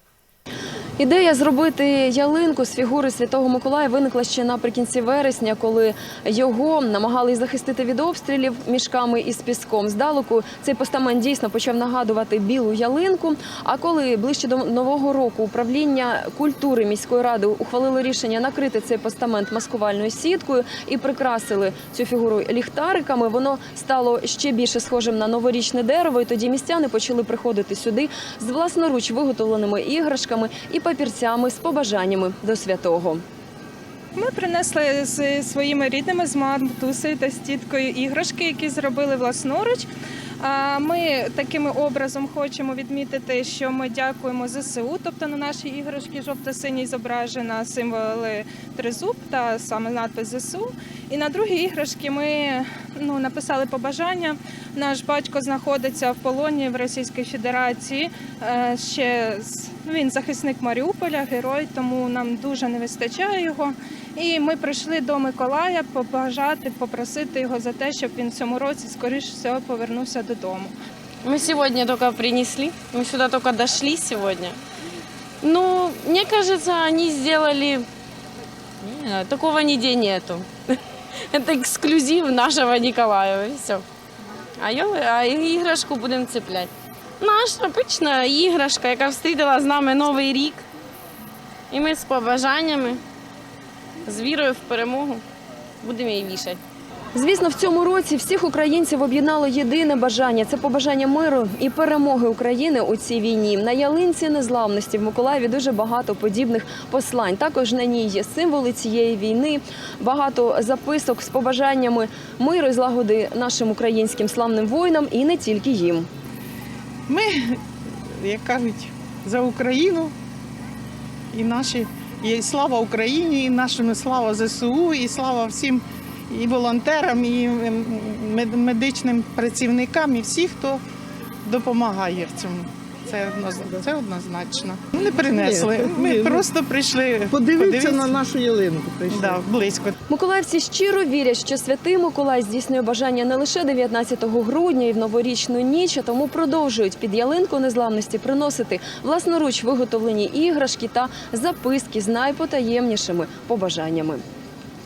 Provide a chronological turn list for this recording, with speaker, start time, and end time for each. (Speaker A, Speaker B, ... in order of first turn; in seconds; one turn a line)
Speaker A: 1.0-33.2
Speaker B: 34.1-39.9
Speaker B: 40.4-70.7
Speaker C: 71.2-74.6
Speaker C: 75.4-77.9
Speaker C: 78.8-83.8
Speaker C: 84.6-90.7
Speaker C: 91.7-93.0
Speaker C: 94.0-95.2
Speaker C: 95.8-96.6
Speaker A: 97.1-116.1
Speaker D: 117.1-117.6
Speaker D: 118.2-120.1
Speaker D: 121.3-130.8
Speaker D: 131.4-138.3
Speaker E: 135.1-136.5
Speaker E: 137.3-139.5
Speaker D: 139.1-139.9
Speaker A: 140.1-154.2